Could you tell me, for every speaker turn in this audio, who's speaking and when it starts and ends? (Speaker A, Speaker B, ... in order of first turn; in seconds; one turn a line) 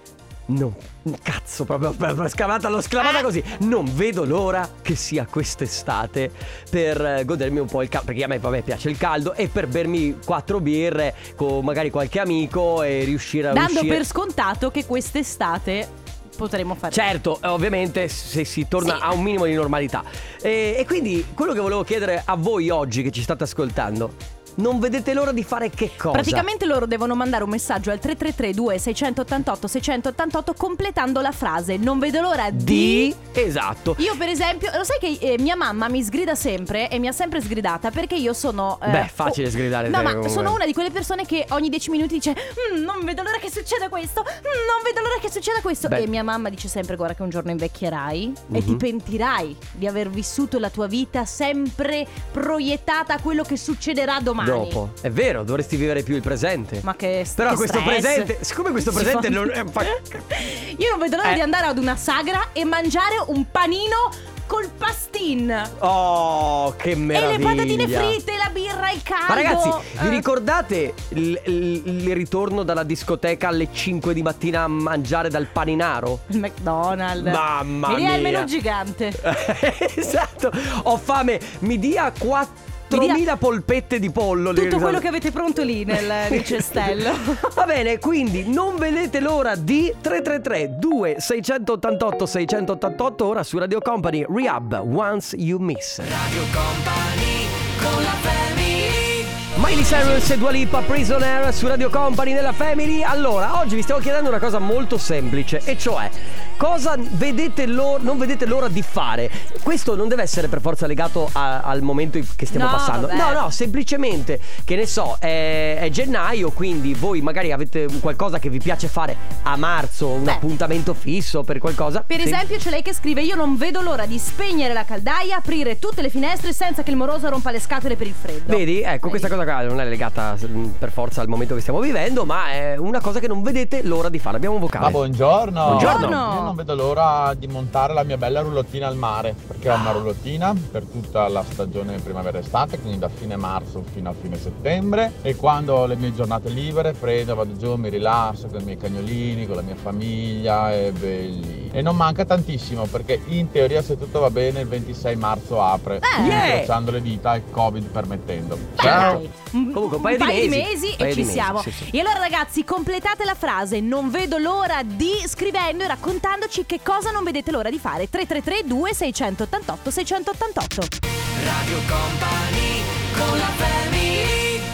Speaker A: 0.5-14.0
Speaker B: 3.0-3.3
Speaker B: 13.5-17.1
Speaker A: 16.9-26.4
Speaker B: 26.1-33.1
Speaker A: 32.5-34.0
Speaker B: 34.0-54.8
Speaker A: 38.9-40.6
Speaker A: 48.5-48.8
Speaker A: 54.4-56.8
Speaker B: 56.8-65.7
Speaker A: 57.4-60.3
Speaker A: 65.8-68.2
Speaker B: 67.1-70.2
Speaker A: 69.3-76.2
Speaker B: 76.3-79.2
Speaker A: 77.2-78.5
Speaker A: 79.2-85.0
Speaker B: 82.9-83.2
Speaker B: 84.5-87.4
Speaker A: 86.0-122.4
Speaker B: 112.5-113.4
Speaker B: 122.1-129.3
Speaker A: 128.5-135.0
Speaker C: 134.8-159.2
Speaker A: 135.6-136.2
Speaker B: 135.7-136.5
Speaker B: 156.0-156.5
Speaker A: 156.2-156.7
Speaker B: 158.8-170.9
Speaker A: 158.8-159.2
Speaker A: 159.7-161.9
Speaker A: 171.4-173.2